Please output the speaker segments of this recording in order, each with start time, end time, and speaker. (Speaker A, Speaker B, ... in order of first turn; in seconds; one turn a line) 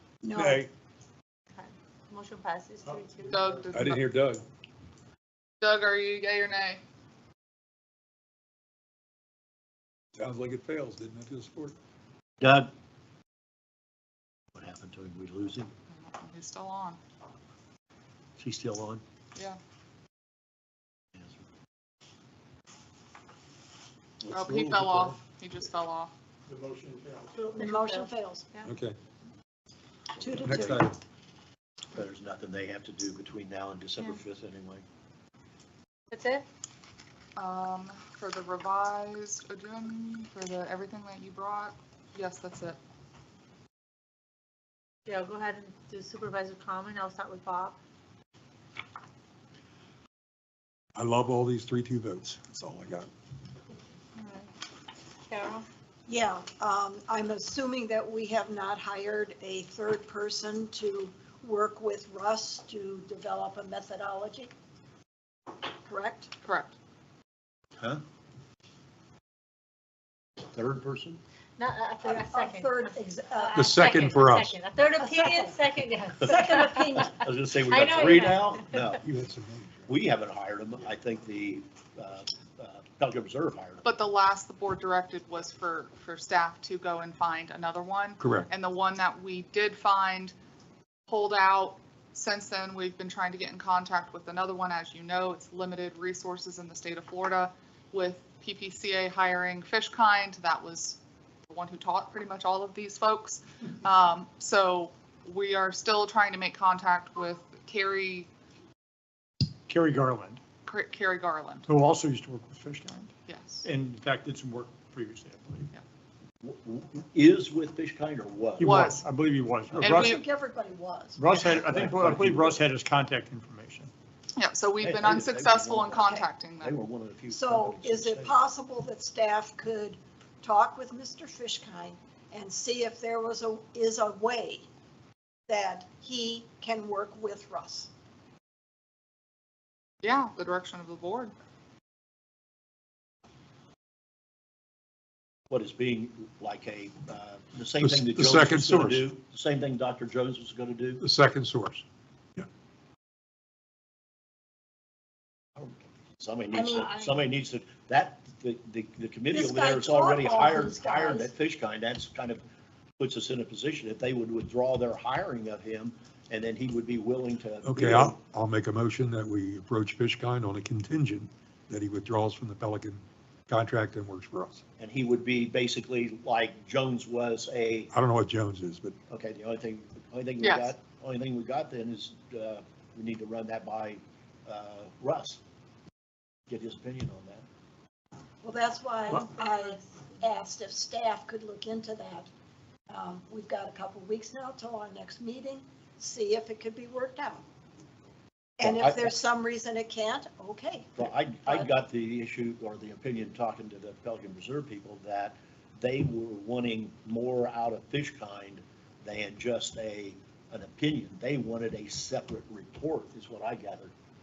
Speaker A: 0.2-0.7
Speaker B: 0.4-0.7
Speaker C: 1.5-3.5
Speaker D: 3.3-4.0
Speaker B: 3.7-4.5
Speaker D: 5.6-6.8
Speaker B: 10.2-11.8
Speaker E: 12.4-12.7
Speaker E: 14.6-15.7
Speaker D: 15.9-17.0
Speaker E: 18.4-19.0
Speaker E: 21.1-21.4
Speaker B: 24.2-25.2
Speaker D: 24.3-26.1
Speaker F: 26.5-27.3
Speaker A: 27.4-28.5
Speaker C: 27.4-28.7
Speaker B: 28.7-29.0
Speaker A: 30.2-30.9
Speaker B: 30.4-31.0
Speaker E: 31.9-34.8
Speaker C: 36.1-36.5
Speaker D: 37.4-42.8
Speaker C: 45.1-47.8
Speaker B: 51.0-53.1
Speaker C: 54.2-54.5
Speaker C: 55.3-55.7
Speaker A: 56.1-64.5
Speaker A: 65.9-66.3
Speaker D: 66.4-66.8
Speaker E: 70.5-71.2
Speaker C: 71.6-78.9
Speaker A: 72.0-73.8
Speaker B: 73.5-74.6
Speaker A: 75.0-75.6
Speaker A: 76.2-77.1
Speaker E: 77.0-79.0
Speaker B: 79.0-79.9
Speaker E: 79.9-83.9
Speaker D: 83.8-90.3
Speaker B: 88.2-88.5
Speaker D: 91.1-101.0
Speaker D: 101.5-108.3
Speaker F: 109.7-110.4
Speaker D: 110.7-111.7
Speaker F: 111.7-113.1
Speaker D: 113.3-113.7
Speaker F: 113.6-115.7
Speaker E: 116.4-118.9
Speaker F: 118.6-120.2
Speaker D: 118.6-119.0
Speaker D: 119.8-120.2
Speaker A: 119.8-121.3
Speaker F: 121.2-123.9
Speaker E: 121.3-122.6
Speaker D: 124.4-126.8
Speaker E: 124.8-128.4
Speaker A: 127.3-134.7
Speaker A: 135.5-137.9
Speaker D: 140.0-141.3
Speaker E: 145.5-151.0
Speaker B: 147.8-149.1
Speaker B: 151.0-151.8
Speaker E: 155.6-162.4
Speaker A: 156.5-157.2
Speaker A: 159.3-161.3
Speaker E: 163.0-168.2
Speaker B: 167.6-174.6
Speaker E: 174.8-177.9
Speaker B: 177.9-179.0
Speaker E: 179.1-185.4
Speaker D: 180.4-180.7
Speaker E: 186.5-187.4
Speaker A: 188.4-192.3
Speaker C: 189.4-189.7
Speaker A: 192.9-197.4
Speaker A: 198.6-201.7
Speaker E: 198.6-199.1
Speaker E: 201.0-213.9